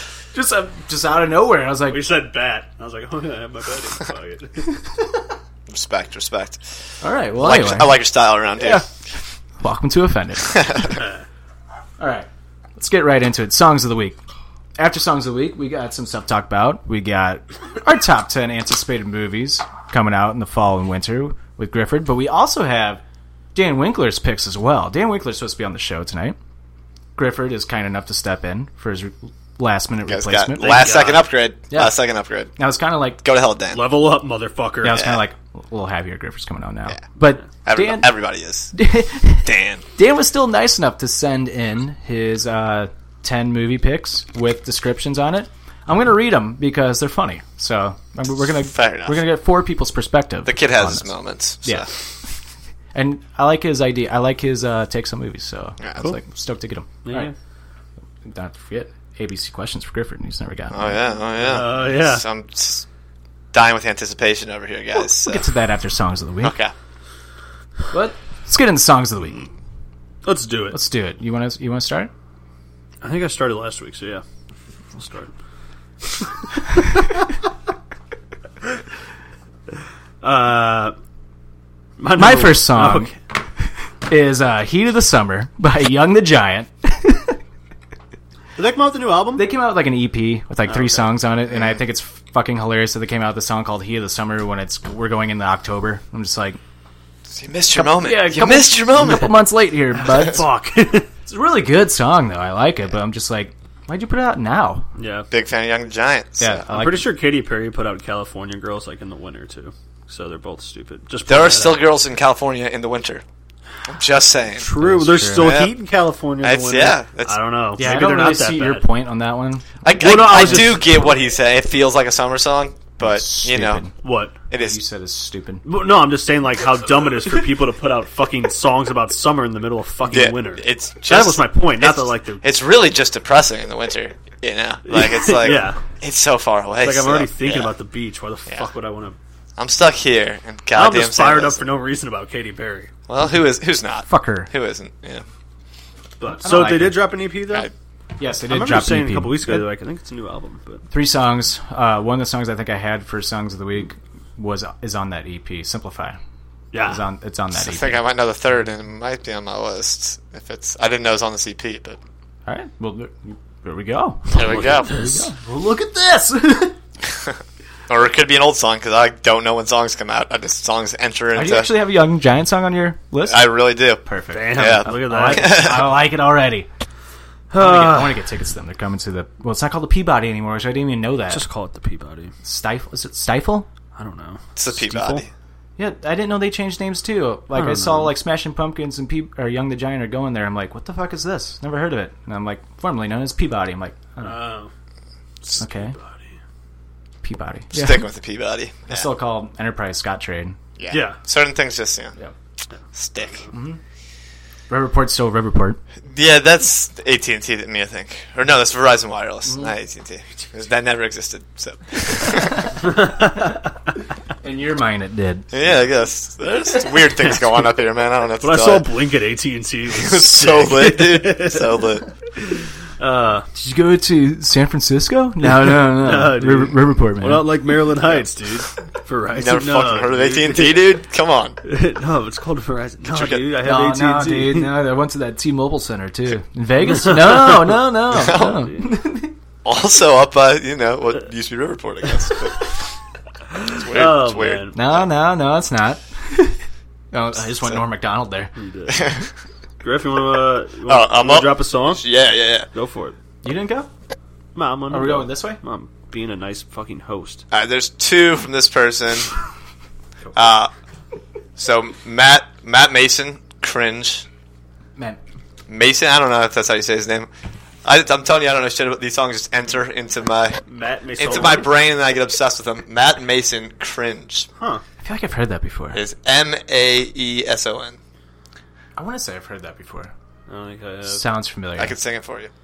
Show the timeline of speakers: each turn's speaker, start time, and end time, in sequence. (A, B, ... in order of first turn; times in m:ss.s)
0:00.3-0:02.1 A
0:01.9-0:04.7 B
0:05.7-0:06.6 C
0:07.0-0:08.0 A
0:07.4-0:08.9 C
0:09.6-0:10.6 A
0:10.4-0:11.0 C
0:12.0-0:14.2 A
0:14.8-0:23.0 A
0:23.6-0:26.4 A
0:27.2-0:30.9 A
0:30.1-0:32.6 C
0:30.6-0:31.3 B
0:31.7-0:32.0 A
0:32.6-0:33.2 A
0:33.2-0:34.0 C
0:33.7-0:35.0 B
0:34.8-0:38.2 A
0:37.6-0:38.8 C
0:38.7-0:52.0 A
0:39.4-0:39.8 C
0:48.6-0:49.2 C
0:50.4-0:51.9 C
0:52.9-0:57.3 A
0:55.8-0:56.2 C
0:57.0-0:57.3 B
0:58.2-1:01.0 A
1:00.7-1:02.8 C
1:01.4-1:02.2 B
1:03.5-1:05.5 C
1:05.0-1:06.6 A
1:06.4-1:06.7 C
1:07.9-1:09.4 A
1:10.2-1:10.8 B
1:10.7-1:12.1 A
1:13.0-1:14.2 B
1:15.0-1:15.3 B
1:20.2-1:21.0 B
1:22.0-1:23.2 B
1:22.1-1:23.1 A
1:24.1-1:27.4 A
1:28.6-1:29.4 B
1:29.4-1:36.6 A
1:30.7-1:31.1 B
1:37.3-1:39.5 C
1:37.7-1:40.4 A
1:40.0-1:41.1 B
1:41.3-1:44.9 A
1:45.0-1:45.3 B
1:45.3-1:46.6 C
1:46.4-1:47.1 A
1:46.7-1:51.9 B
1:51.3-1:53.2 C
1:53.9-1:54.7 C
1:54.6-1:58.8 B
1:54.8-1:55.5 A
1:55.3-1:55.7 C
1:56.4-1:57.4 C
1:57.8-2:00.8 A
1:59.8-2:03.9 C
2:00.0-2:01.2 B
2:03.0-2:03.9 A
2:04.0-2:04.4 B
2:04.5-2:04.8 C
2:04.5-2:05.6 A
2:05.6-2:12.4 B
2:10.1-2:17.7 C
2:14.9-2:15.8 B
2:16.8-2:19.2 B
2:19.6-2:21.7 C
2:20.7-2:22.9 B
2:23.1-2:25.2 C
2:24.1-2:24.5 A
2:26.2-2:27.7 B
2:26.4-2:27.0 A
2:28.2-2:29.7 A
2:28.5-2:30.8 B
2:30.9-2:36.2 A
2:36.7-2:37.0 B
2:36.8-2:38.0 A
2:37.6-2:42.0 C
2:42.5-2:46.8 A
2:44.3-2:45.3 B
2:44.3-2:45.0 C
2:47.9-2:51.7 C
2:51.3-2:56.7 A
2:53.2-2:55.9 C
2:54.3-2:55.7 B
2:57.5-2:58.2 B
2:57.6-3:01.4 A
3:01.3-3:02.3 B
3:02.4-3:03.7 A
3:04.0-3:05.3 B
3:04.6-3:05.3 C
3:05.8-3:14.4 A
3:07.6-3:08.1 B
3:14.2-3:14.7 B
3:15.4-3:16.2 B
3:15.6-3:16.0 A
3:17.2-3:18.1 A
3:17.7-3:19.1 C
3:18.9-3:20.6 A
3:20.8-3:22.2 C
3:20.9-3:21.2 B
3:22.9-3:23.5 C
3:23.5-3:23.8 A
3:24.7-3:25.8 A
3:26.1-3:32.9 C
3:29.5-3:29.7 A
3:32.8-3:33.4 B
3:34.4-3:35.5 A
3:35.5-3:38.9 C
3:38.4-3:41.9 B
3:39.9-3:42.1 C
3:43.0-3:43.5 B
3:43.5-3:47.5 A
3:45.5-3:51.0 B
3:49.3-3:51.6 C
3:51.6-3:54.7 B
3:53.1-3:53.5 C
3:53.6-3:59.3 A
3:56.9-3:58.8 B
3:58.1-3:58.7 C
3:59.6-4:02.8 C
4:03.6-4:04.8 B
4:03.6-4:05.0 C
4:04.8-4:06.6 A
4:07.1-4:08.5 A
4:08.6-4:09.1 B
4:08.9-4:09.3 C
4:09.8-4:12.0 B
4:10.9-4:12.7 C
4:12.7-4:13.2 B
4:13.4-4:13.9 A
4:14.6-4:17.4 B
4:14.9-4:15.6 A
4:17.5-4:19.4 C
4:20.4-4:20.7 C
4:21.6-4:24.3 C
4:25.7-4:27.3 C
4:27.8-4:30.6 C
4:30.7-4:31.7 B
4:31.2-4:34.5 C
4:35.0-4:36.0 A
4:35.9-4:38.0 C
4:39.0-4:40.1 A
4:40.5-4:41.2 B
4:41.1-4:42.0 A
4:41.8-4:42.5 C